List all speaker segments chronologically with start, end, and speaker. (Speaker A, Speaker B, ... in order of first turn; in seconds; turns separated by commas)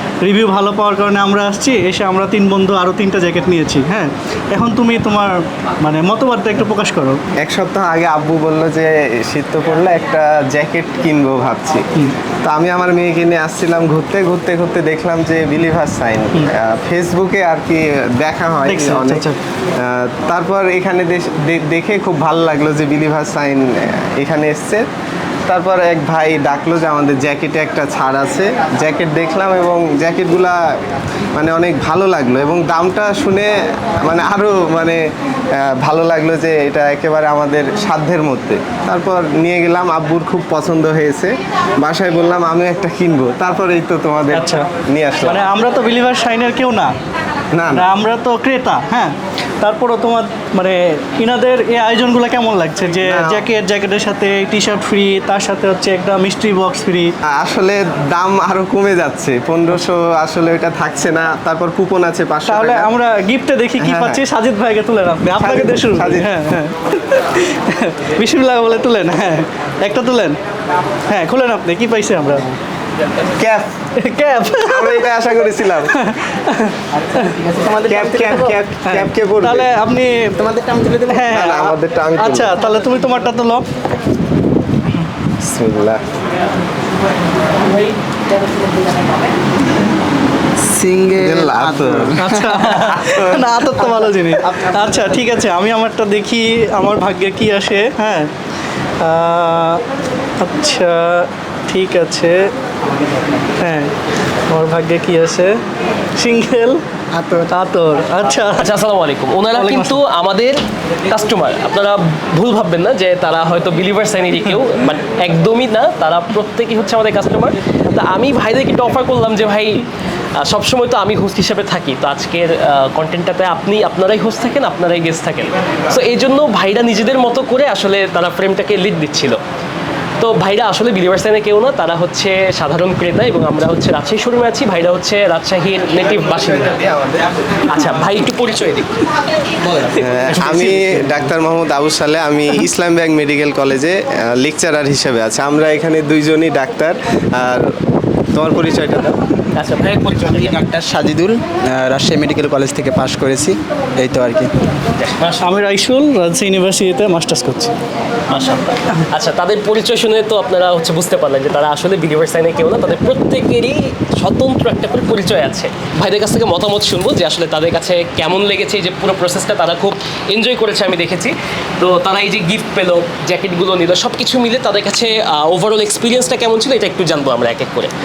Speaker A: 0.2-7.2, Speaker B: 7.4-11.8, Speaker B: 12.4-24.8, Speaker A: 18.7-19.4, Speaker B: 25.5-30.6, Speaker B: 31.4-35.0, Speaker B: 35.6-45.5, Speaker A: 44.3-44.7, Speaker A: 45.2-46.9, Speaker B: 47.5-47.9, Speaker A: 47.7-57.1, Speaker B: 53.1-53.4, Speaker B: 57.3-62.9, Speaker A: 62.5-70.4, Speaker B: 63.8-64.2, Speaker B: 65.3-66.3, Speaker A: 71.1-72.5, Speaker B: 73.4-73.7, Speaker A: 74.0-77.3, Speaker B: 74.7-75.9, Speaker C: 77.2-78.6, Speaker B: 77.9-79.7, Speaker A: 78.8-80.3, Speaker C: 80.3-81.5, Speaker A: 81.1-83.6, Speaker B: 81.3-82.5, Speaker B: 85.4-86.0, Speaker C: 90.6-93.2, Speaker B: 91.2-93.6, Speaker A: 92.2-98.3, Speaker A: 99.0-99.8, Speaker A: 100.4-102.5, Speaker A: 103.6-103.9, Speaker A: 104.5-105.6, Speaker A: 106.2-106.8, Speaker A: 107.4-108.7, Speaker D: 108.6-119.9, Speaker A: 109.5-110.0, Speaker D: 120.4-129.4, Speaker D: 130.2-136.8, Speaker D: 137.7-141.0, Speaker B: 140.0-147.7, Speaker B: 148.3-149.2, Speaker D: 149.5-150.6, Speaker C: 150.2-154.5, Speaker D: 155.0-155.6, Speaker A: 155.4-157.7, Speaker D: 158.3-177.9